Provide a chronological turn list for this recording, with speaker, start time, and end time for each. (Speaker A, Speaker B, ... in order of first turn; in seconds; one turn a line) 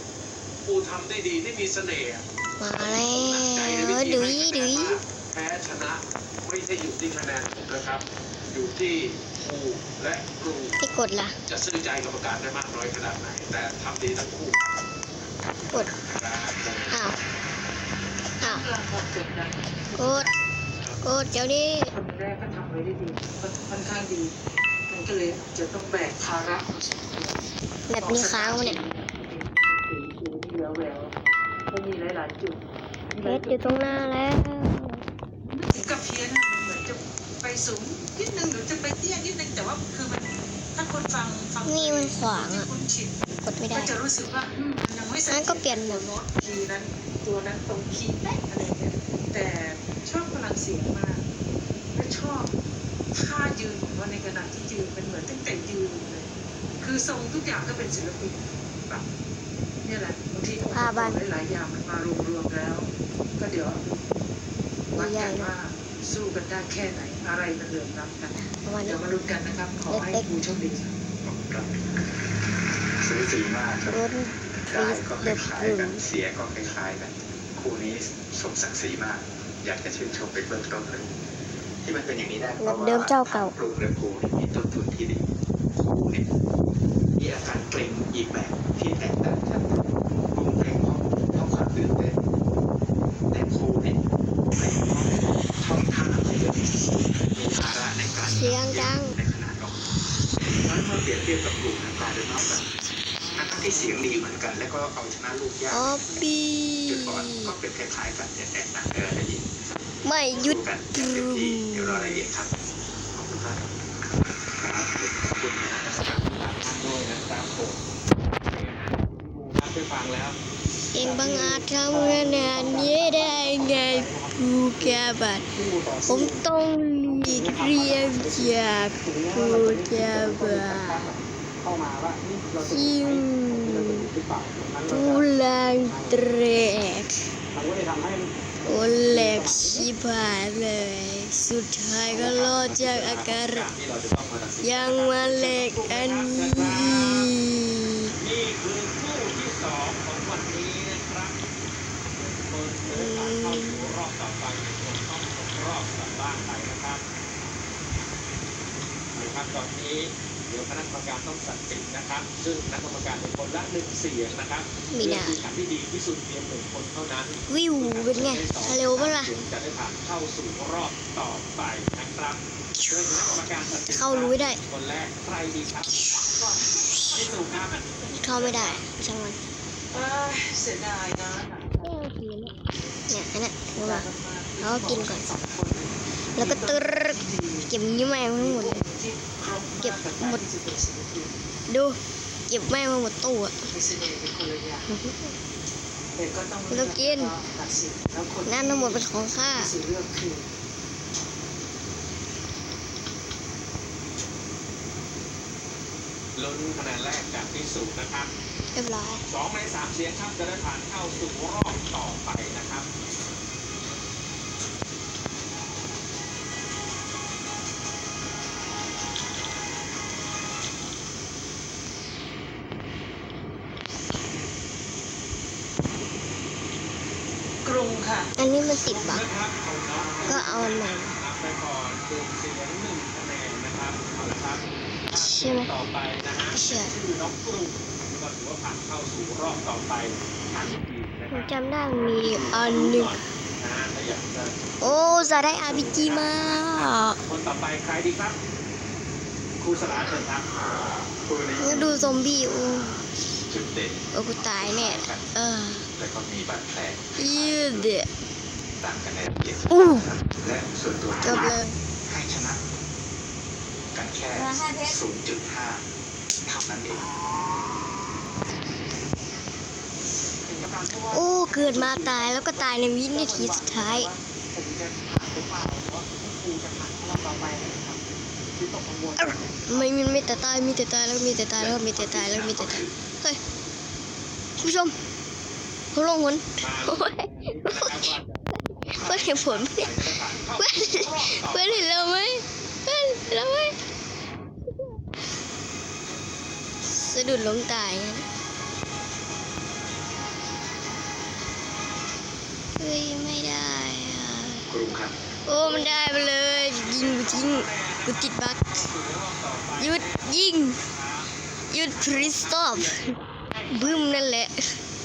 Speaker A: 0.6-2.2
Speaker B: 2.6-5.0
Speaker A: 2.8-10.8
Speaker B: 10.8-11.3
Speaker A: 11.5-14.7
Speaker A: 15.9-16.9
Speaker B: 16.9-17.1
Speaker C: 18.4-20.4
Speaker B: 20.0-20.3
Speaker B: 21.0-21.9
Speaker C: 21.9-24.3
Speaker C: 24.9-31.1
Speaker B: 27.9-28.8
Speaker C: 31.7-34.1
Speaker B: 33.2-35.0
Speaker C: 35.5-51.3
Speaker B: 41.6-42.7
Speaker B: 43.4-43.9
Speaker B: 45.3-46.1
Speaker C: 51.9-52.5
Speaker C: 53.1-59.0
Speaker C: 59.8-64.2
Speaker B: 60.7-61.2
Speaker C: 64.9-70.9
Speaker B: 64.9-65.5
Speaker B: 68.4-69.0
Speaker B: 69.9-70.3
Speaker D: 71.2-71.8
Speaker D: 73.0-74.0
Speaker B: 73.8-76.0
Speaker D: 74.6-81.1
Speaker D: 81.8-86.2
Speaker B: 82.6-83.5
Speaker D: 87.2-92.2
Speaker D: 93.3-94.0
Speaker D: 94.5-99.8
Speaker B: 98.2-99.1
Speaker D: 100.6-102.7
Speaker D: 103.3-106.0
Speaker B: 105.7-107.5
Speaker D: 106.8-109.5
Speaker B: 110.0-112.2
Speaker D: 110.3-113.7
Speaker D: 114.5-116.2
Speaker A: 115.9-117.8
Speaker A: 118.5-120.4
Speaker B: 120.9-125.5
Speaker A: 120.9-126.4
Speaker B: 126.0-131.1
Speaker A: 127.0-135.3
Speaker B: 132.7-134.1
Speaker B: 134.9-137.2
Speaker A: 135.8-136.2
Speaker A: 137.5-139.9
Speaker B: 138.7-143.7
Speaker A: 142.1-147.3
Speaker B: 144.6-148.1
Speaker A: 148.2-151.4
Speaker A: 152.0-157.0
Speaker B: 152.9-153.8
Speaker A: 159.1-176.3
Speaker B: 164.9-165.4
Speaker B: 167.5-169.3
Speaker B: 172.7-174.6
Speaker B: 175.9-177.2
Speaker A: 177.1-178.9
Speaker C: 177.2-177.7
Speaker B: 178.1-179.4
Speaker C: 179.9-182.9
Speaker B: 181.8-182.5
Speaker B: 183.1-184.1
Speaker C: 183.7-187.7
Speaker B: 184.6-185.3
Speaker B: 186.4-188.8
Speaker C: 188.3-191.4
Speaker B: 189.8-190.4
Speaker B: 191.7-193.7
Speaker C: 193.7-194.9
Speaker B: 194.9-195.3
Speaker C: 196.1-200.5
Speaker B: 196.7-197.3
Speaker B: 198.4-199.7
Speaker A: 206.3-208.3
Speaker B: 208.7-209.2
Speaker A: 209.2-212.8
Speaker C: 227.6-228.3
Speaker B: 228.4-229.2
Speaker A: 228.8-248.4
Speaker C: 229.9-230.4
Speaker B: 230.3-231.1
Speaker B: 235.1-235.7
Speaker B: 236.5-236.9
Speaker B: 241.3-243.2
Speaker B: 244.8-247.2
Speaker A: 249.6-250.5
Speaker D: 251.2-252.2
Speaker B: 251.6-253.0
Speaker D: 253.5-255.3
Speaker B: 254.1-255.9
Speaker D: 255.9-257.9
Speaker B: 257.2-258.1
Speaker D: 258.8-262.6
Speaker B: 259.7-260.1
Speaker B: 261.2-261.8
Speaker D: 263.9-265.9
Speaker D: 266.4-267.0
Speaker C: 270.5-278.0
Speaker B: 271.1-274.1
Speaker C: 278.6-279.3
Speaker B: 279.2-283.4
Speaker D: 281.6-282.9
Speaker B: 284.6-284.9
Speaker B: 285.9-288.1
Speaker A: 286.6-292.0
Speaker B: 288.9-289.9
Speaker B: 290.6-293.7
Speaker B: 296.9-298.2
Speaker B: 302.8-304.6
Speaker D: 304.7-305.1
Speaker B: 305.4-308.8
Speaker A: 305.6-311.3
Speaker B: 309.8-310.8
Speaker B: 311.7-313.1
Speaker A: 311.9-314.3
Speaker B: 313.7-314.8